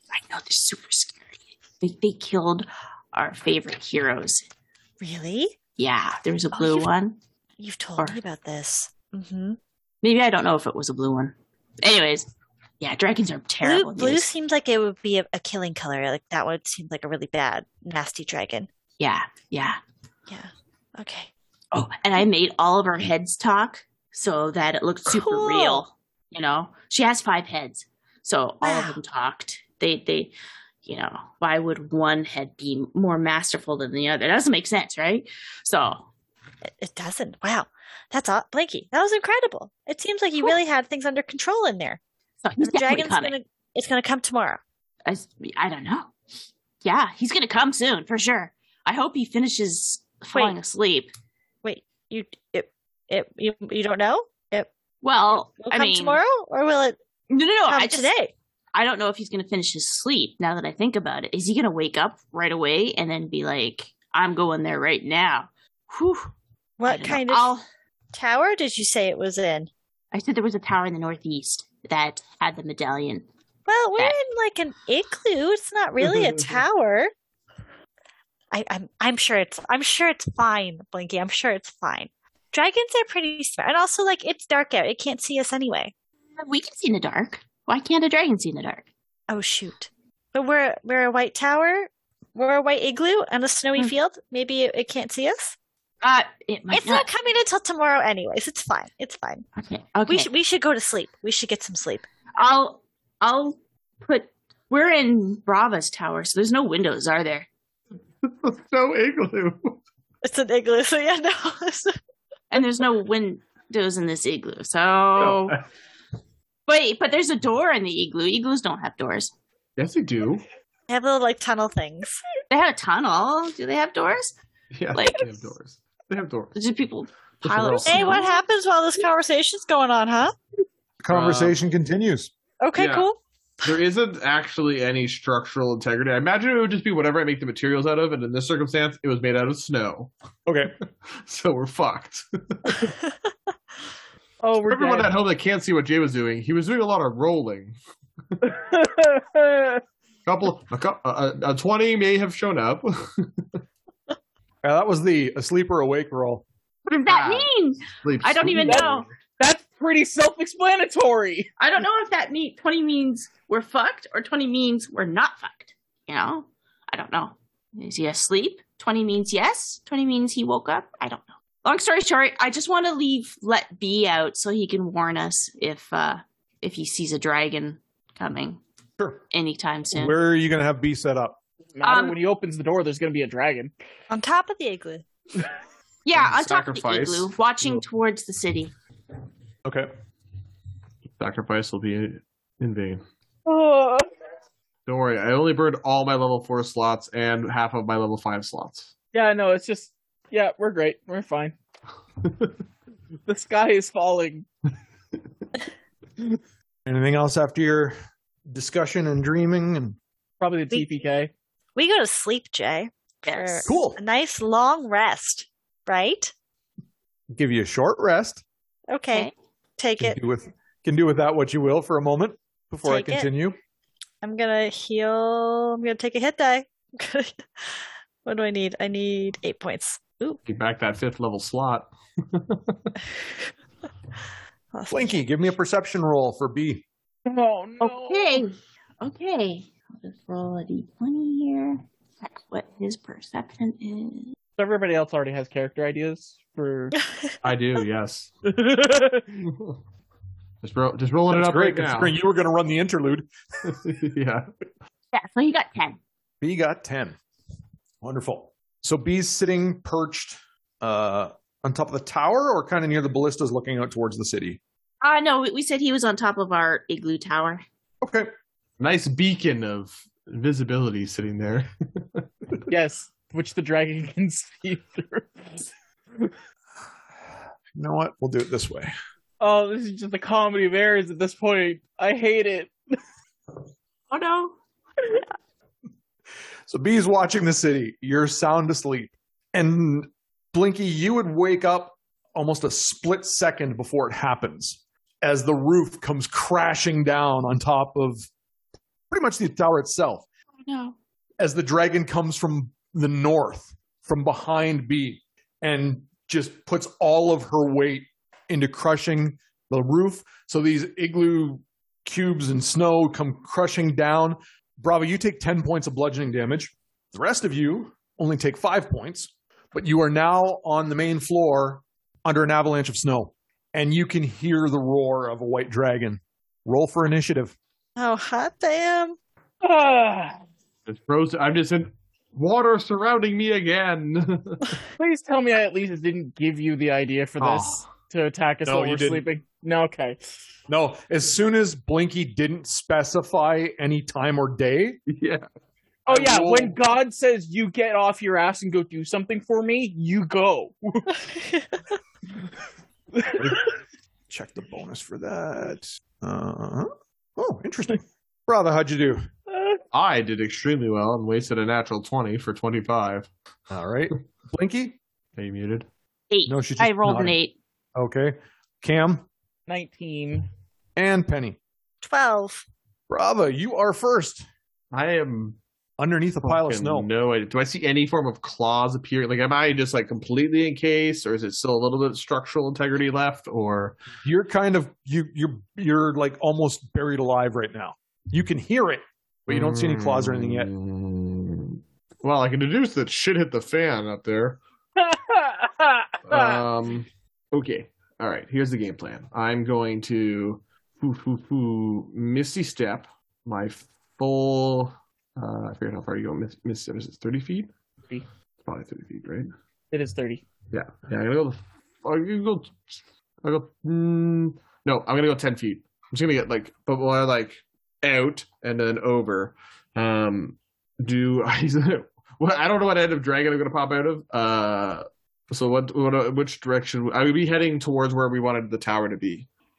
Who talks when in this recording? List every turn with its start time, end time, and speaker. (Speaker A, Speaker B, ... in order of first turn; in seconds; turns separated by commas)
Speaker A: 0.1-4.5, Speaker B: 5.0-5.6, Speaker A: 5.8-7.2, Speaker B: 6.5-6.9, Speaker B: 7.6-9.6, Speaker A: 10.0-12.3, Speaker A: 12.8-14.3, Speaker B: 13.6-18.7, Speaker A: 19.0-19.8, Speaker B: 20.3-21.3, Speaker A: 21.7-30.3, Speaker B: 25.1-25.8, Speaker B: 28.6-29.0, Speaker A: 30.9-36.1, Speaker B: 36.8-42.0, Speaker A: 42.4-43.3, Speaker B: 42.6-44.6, Speaker A: 45.0-46.1, Speaker A: 46.8-51.1, Speaker B: 51.6-54.7, Speaker A: 55.0-56.2, Speaker B: 55.6-57.0, Speaker A: 57.3-58.1, Speaker B: 57.7-58.3, Speaker A: 58.7-66.3, Speaker B: 66.8-67.5, Speaker A: 66.8-67.6, Speaker B: 68.1-69.7, Speaker A: 70.1-73.3, Speaker B: 73.7-77.1, Speaker B: 78.5-85.9, Speaker A: 86.4-88.8, Speaker B: 89.3-95.5, Speaker A: 96.0-97.1, Speaker B: 96.7-99.5, Speaker A: 99.6-100.3, Speaker B: 100.1-102.1, Speaker A: 102.4-107.5, Speaker C: 108.2-109.8, Speaker B: 110.2-112.0, Speaker A: 112.5-115.6, Speaker C: 115.2-115.6, Speaker A: 116.7-119.3, Speaker C: 119.8-120.5, Speaker B: 120.9-122.2, Speaker A: 122.5-124.4, Speaker C: 124.7-126.5, Speaker A: 124.9-125.5, Speaker A: 126.5-128.3, Speaker C: 127.4-128.2, Speaker B: 127.8-130.3, Speaker D: 131.0-132.3, Speaker C: 131.1-131.6, Speaker B: 132.6-133.2, Speaker C: 132.8-133.1, Speaker C: 133.6-140.1, Speaker D: 140.5-140.7, Speaker C: 141.2-142.9, Speaker E: 144.4-145.1, Speaker C: 144.7-147.8, Speaker E: 148.4-149.8, Speaker C: 150.3-153.4, Speaker D: 154.6-156.4, Speaker A: 156.9-159.1, Speaker C: 157.1-159.1, Speaker E: 158.6-158.9, Speaker E: 159.4-161.5, Speaker A: 161.6-178.6, Speaker A: 179.3-180.2, Speaker D: 179.9-181.4, Speaker E: 181.8-183.7, Speaker A: 181.8-182.2, Speaker B: 184.1-185.0, Speaker A: 186.1-188.7, Speaker C: 186.1-187.8, Speaker C: 191.2-193.0, Speaker E: 193.5-194.1, Speaker C: 194.9-198.9, Speaker E: 199.1-201.6, Speaker E: 203.3-204.5, Speaker D: 206.9-208.0, Speaker D: 208.5-210.0, Speaker E: 210.4-211.3, Speaker B: 211.8-216.3, Speaker A: 213.3-213.7, Speaker D: 213.7-214.0, Speaker D: 217.3-218.4, Speaker B: 218.9-220.2, Speaker D: 220.0-223.6, Speaker B: 222.8-223.3, Speaker B: 224.2-230.4, Speaker C: 230.5-232.9, Speaker B: 234.7-235.2, Speaker D: 234.9-236.9, Speaker E: 237.3-238.4, Speaker A: 237.8-244.3, Speaker E: 244.6-247.0, Speaker C: 247.4-248.3, Speaker E: 248.5-249.3, Speaker C: 249.4-249.8, Speaker C: 250.6-252.2, Speaker D: 251.3-253.3, Speaker C: 253.7-254.5, Speaker A: 255.1-256.0, Speaker D: 256.4-257.2, Speaker D: 258.0-264.6, Speaker A: 265.0-267.6, Speaker D: 268.0-268.3, Speaker C: 268.8-272.6, Speaker E: 272.7-276.3, Speaker D: 277.8-278.9, Speaker E: 279.4-283.0, Speaker A: 284.1-284.6, Speaker D: 286.7-298.3, Speaker D: 299.1-300.3, Speaker A: 300.6-300.9, Speaker D: 301.4-327.6, Speaker B: 328.0-329.2, Speaker E: 329.6-330.4, Speaker C: 330.9-334.8, Speaker E: 335.0-340.4, Speaker C: 337.4-337.9, Speaker D: 338.6-339.2, Speaker D: 340.7-345.0, Speaker C: 345.1-345.5, Speaker E: 346.1-351.2, Speaker C: 346.1-346.8, Speaker B: 351.3-351.8, Speaker E: 353.2-353.6, Speaker D: 354.3-359.2, Speaker C: 359.9-363.3, Speaker D: 363.7-365.0, Speaker C: 365.4-365.9, Speaker A: 366.3-367.6, Speaker D: 366.5-367.4, Speaker D: 368.0-369.3, Speaker E: 369.7-370.5, Speaker D: 371.0-371.6, Speaker B: 372.0-372.7, Speaker D: 373.1-374.4, Speaker C: 374.9-375.6, Speaker D: 376.0-377.1, Speaker C: 376.4-384.0, Speaker D: 384.2-390.7, Speaker C: 389.5-394.6, Speaker E: 395.0-396.6, Speaker C: 396.3-407.7, Speaker C: 408.6-409.5, Speaker E: 409.9-410.4, Speaker C: 410.7-429.5